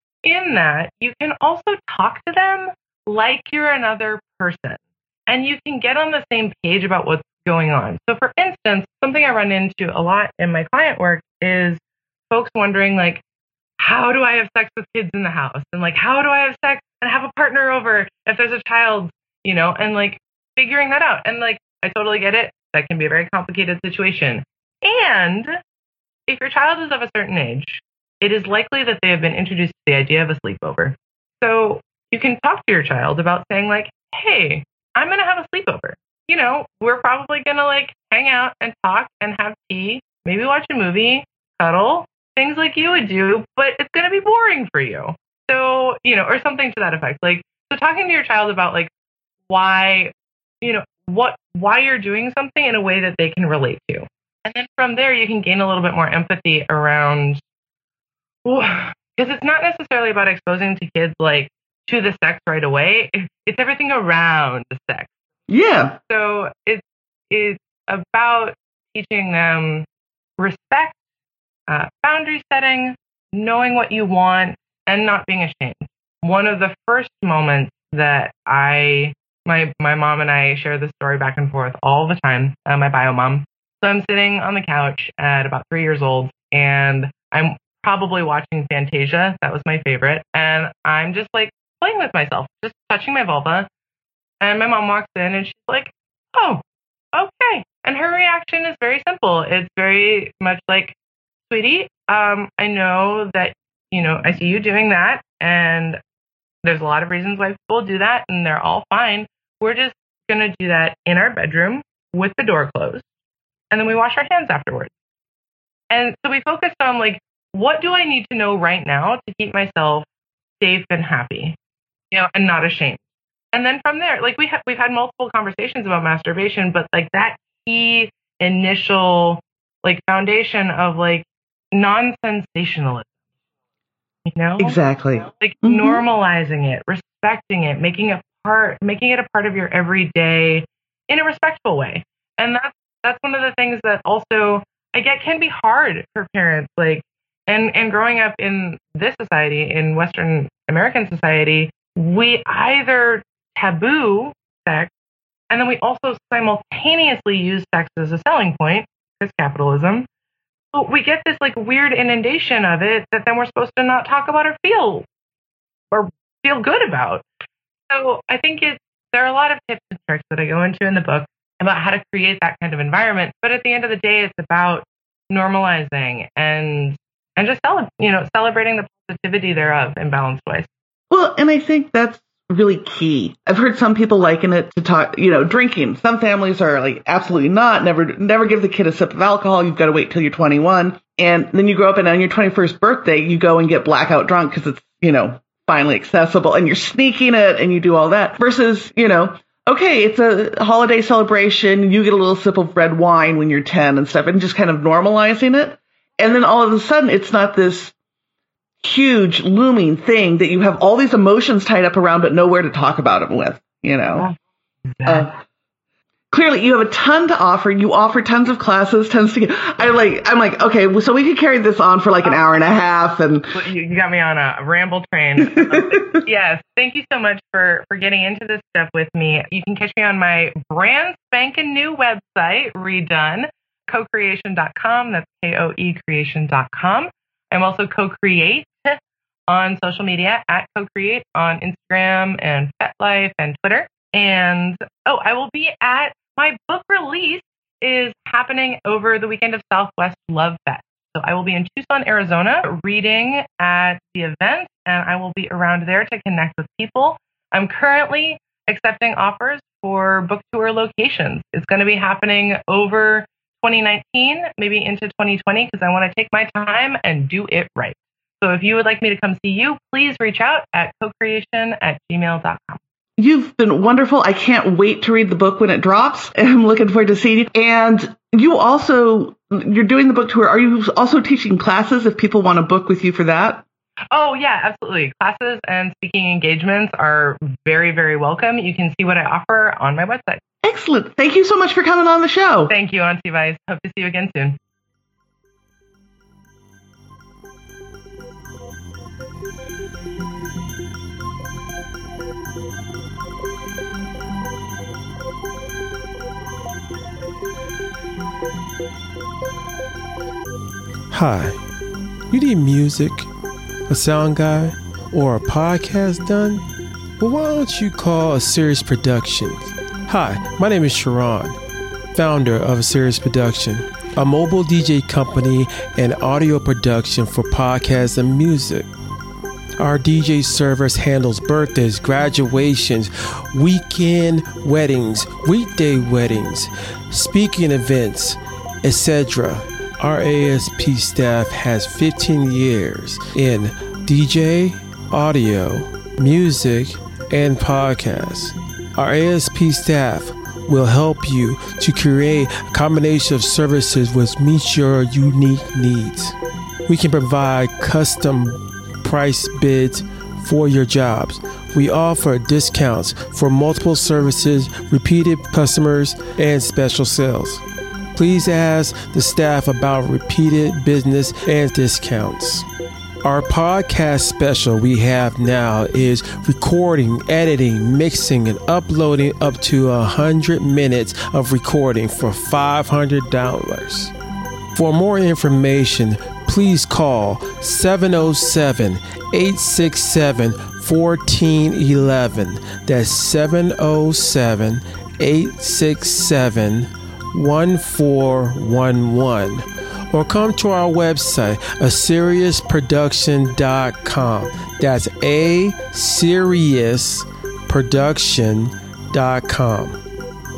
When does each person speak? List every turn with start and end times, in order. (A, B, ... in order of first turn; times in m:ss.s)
0:00.2-0:13.2 A
0:13.8-0:25.5 A
0:26.3-0:48.9 A
0:49.5-0:57.4 A
0:58.4-1:05.1 A
1:05.5-1:06.0 B
1:06.1-1:09.9 A
1:10.4-1:11.0 A
1:11.7-1:33.7 A
1:34.4-1:36.6 A
1:37.1-1:41.0 A
1:41.5-1:46.0 A
1:46.6-1:53.0 A
1:53.7-1:54.9 A
1:55.9-2:00.1 A
2:00.6-2:01.6 A
2:02.1-2:03.0 A
2:03.5-2:13.1 A
2:14.3-2:14.8 A
2:14.6-2:16.0 B
2:15.4-2:34.9 A
2:35.5-2:40.1 A
2:40.7-2:45.1 A
2:45.9-2:47.3 A
2:47.9-3:00.7 A
3:01.1-3:27.9 B
3:28.8-3:34.3 B
3:34.9-3:35.3 A
3:35.1-3:35.3 B
3:36.3-3:43.6 B
3:43.5-3:59.0 A
3:45.4-3:46.2 B
3:59.5-4:32.8 A
4:33.2-4:43.6 B
4:44.1-4:50.4 A
4:50.6-4:52.7 B
4:52.7-4:54.6 A
5:11.1-5:11.6 C
5:12.3-5:13.3 C
5:13.9-5:16.6 C
5:17.2-5:21.6 C
5:22.1-5:28.9 C
5:29.8-5:56.4 C
5:56.9-6:07.6 C
6:08.1-6:12.7 C
6:13.2-6:24.1 C
6:24.8-6:50.0 C